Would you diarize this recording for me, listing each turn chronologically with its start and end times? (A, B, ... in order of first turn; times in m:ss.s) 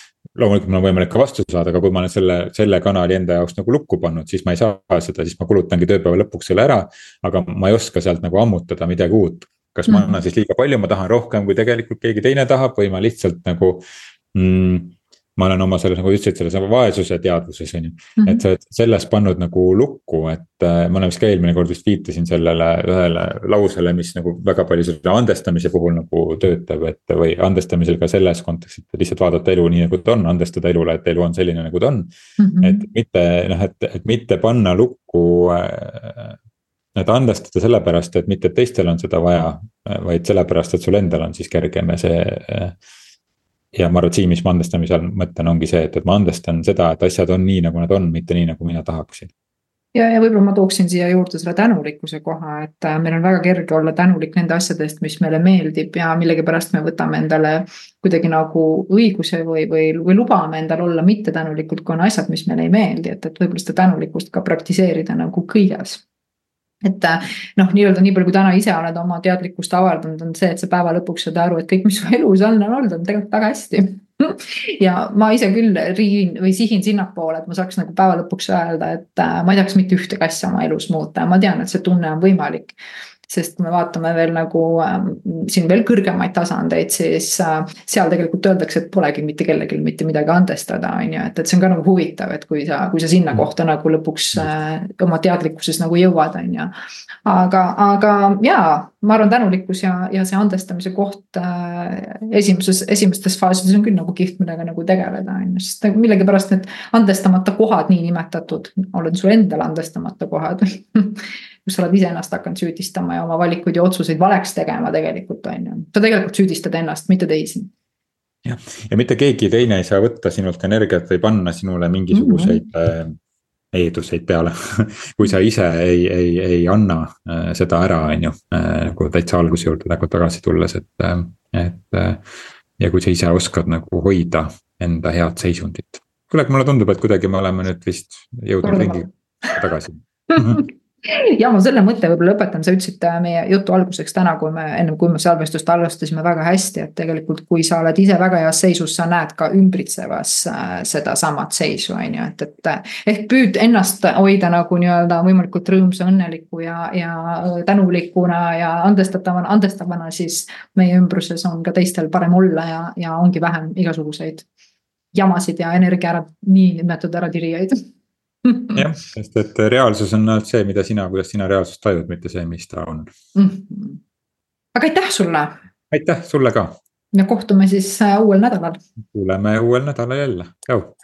0:00.3-0:32.1 A
0:09.9-0:10.1 B
0:18.2-0:18.4 B
0:32.4-0:32.9 B
0:32.6-0:36.4 A
0:36.9-0:42.8 A
0:43.7-0:49.3 A
0:49.9-1:06.0 B
1:06.8-1:22.8 B
1:23.3-1:36.7 B
1:37.2-1:57.7 B
1:58.4-2:03.2 A
2:02.1-2:02.6 B
2:03.7-2:12.2 A
2:12.8-2:20.6 A
2:18.6-2:19.5 B
2:20.3-2:44.4 B
2:45.1-2:47.8 B
2:48.4-2:48.8 B
2:48.7-2:53.1 A
2:53.3-2:54.0 B
2:54.7-2:55.5 B
2:55.9-2:56.8 A
2:57.1-2:58.8 B
2:59.1-3:00.9 A